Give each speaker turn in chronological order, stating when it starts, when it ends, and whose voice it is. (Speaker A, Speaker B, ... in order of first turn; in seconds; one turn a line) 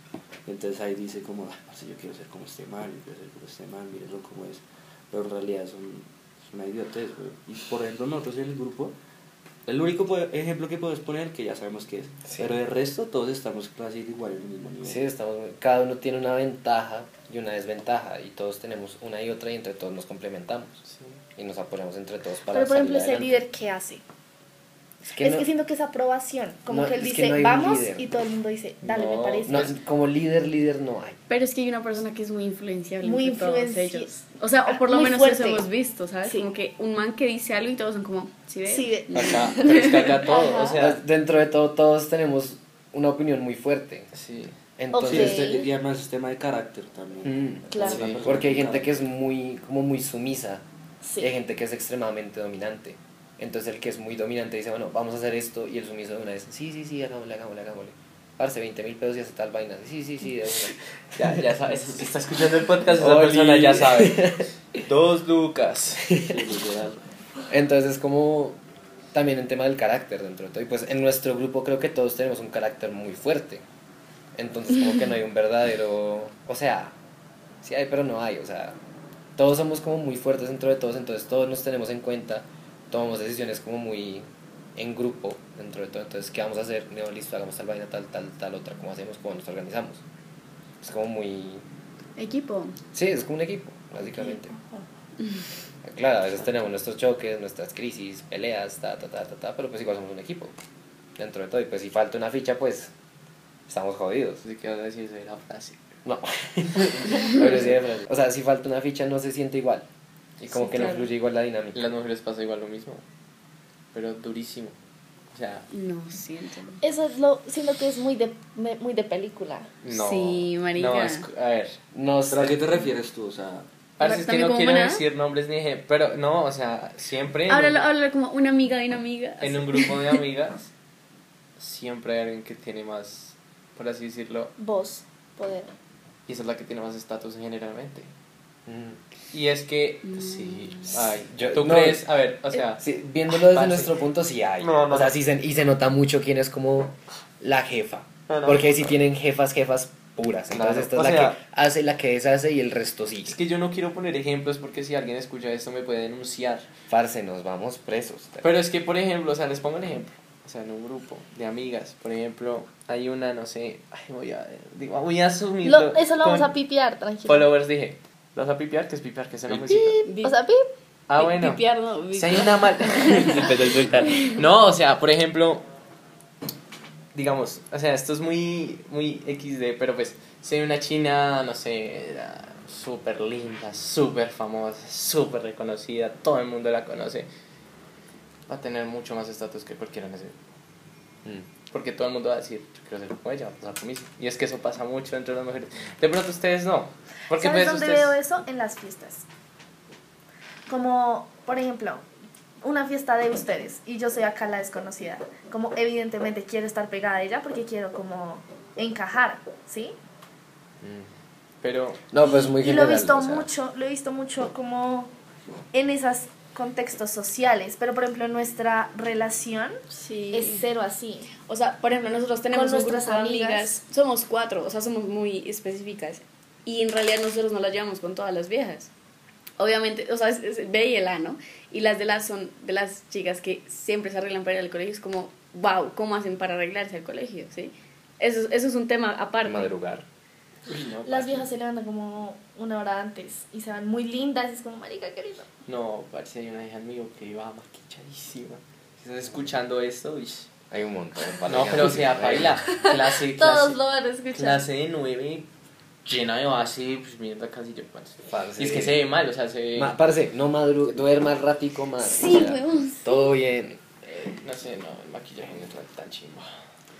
Speaker A: 0.5-8.9
Speaker A: 9.7-15.0
Speaker B: 12.3-12.5
Speaker B: 14.8-20.8
Speaker C: 20.9-21.2
Speaker B: 21.4-23.4
Speaker D: 22.5-24.0
Speaker B: 25.0-25.5
Speaker D: 25.2-29.7
Speaker B: 26.7-28.1
Speaker C: 28.8-29.7
Speaker B: 29.4-31.2
Speaker E: 31.3-40.3
Speaker D: 33.0-35.6
Speaker D: 38.6-40.8
Speaker C: 39.1-41.0
Speaker B: 40.7-44.1
Speaker C: 44.1-44.5
Speaker B: 44.8-45.5
Speaker D: 44.9-45.7
Speaker A: 45.0-48.9
Speaker B: 47.2-50.6
Speaker D: 47.7-48.1
Speaker C: 47.8-48.2
Speaker D: 51.0-51.3
Speaker B: 51.2-60.8
Speaker C: 61.1-66.1
Speaker B: 63.0-64.4
Speaker B: 66.1-66.4
Speaker A: 66.2-67.0
Speaker B: 67.5-68.6
Speaker B: 69.1-73.6
Speaker B: 74.3-76.9
Speaker B: 77.6-78.8
Speaker B: 79.4-90.0
Speaker B: 90.8-91.6
Speaker E: 92.2-92.8
Speaker B: 92.9-94.5
Speaker B: 95.8-100.5
Speaker B: 101.2-102.9
Speaker B: 103.7-104.4
Speaker C: 104.4-106.0
Speaker B: 106.0-109.8
Speaker C: 107.0-107.5
Speaker B: 110.4-111.9
Speaker C: 111.7-113.0
Speaker C: 113.9-114.7
Speaker C: 115.3-115.7
Speaker E: 115.7-116.8
Speaker D: 116.8-119.7
Speaker C: 119.8-121.8
Speaker E: 119.9-121.2
Speaker B: 121.9-122.6
Speaker A: 122.3-123.7
Speaker C: 124.0-127.9
Speaker E: 124.0-125.0
Speaker E: 127.5-130.2
Speaker C: 129.4-130.7
Speaker C: 131.6-134.5
Speaker D: 134.6-135.7
Speaker C: 136.3-138.1
Speaker B: 138.7-139.0
Speaker C: 139.3-142.8
Speaker E: 140.0-140.9
Speaker B: 140.9-142.0
Speaker B: 142.8-153.4
Speaker C: 143.3-143.9
Speaker C: 144.6-145.1
Speaker C: 148.3-148.7
Speaker C: 150.5-151.4
Speaker C: 153.3-156.7
Speaker B: 156.9-158.5
Speaker C: 158.4-166.5
Speaker D: 165.6-167.5
Speaker C: 167.2-170.0
Speaker D: 169.7-170.7
Speaker E: 170.0-170.4
Speaker C: 171.1-171.6
Speaker E: 171.1-173.4
Speaker C: 172.1-175.6
Speaker C: 177.1-187.2
Speaker C: 188.5-190.3
Speaker C: 191.7-198.2
Speaker D: 197.3-199.2
Speaker D: 200.7-202.0
Speaker D: 202.6-209.9
Speaker B: 210.8-211.1
Speaker C: 211.6-212.0
Speaker B: 212.1-213.5
Speaker D: 212.5-215.1
Speaker D: 215.7-219.8
Speaker E: 219.9-220.6
Speaker D: 220.3-221.3
Speaker E: 221.4-228.9
Speaker D: 222.5-223.8
Speaker E: 229.6-239.7
Speaker B: 239.4-240.0
Speaker C: 240.7-241.5
Speaker D: 241.1-245.5
Speaker C: 245.7-250.5
Speaker B: 250.7-252.6
Speaker C: 251.4-253.8
Speaker D: 252.7-254.6
Speaker C: 254.3-255.5
Speaker C: 256.0-259.9
Speaker B: 258.2-259.0
Speaker B: 259.8-263.8
Speaker E: 262.0-263.0
Speaker C: 264.0-266.5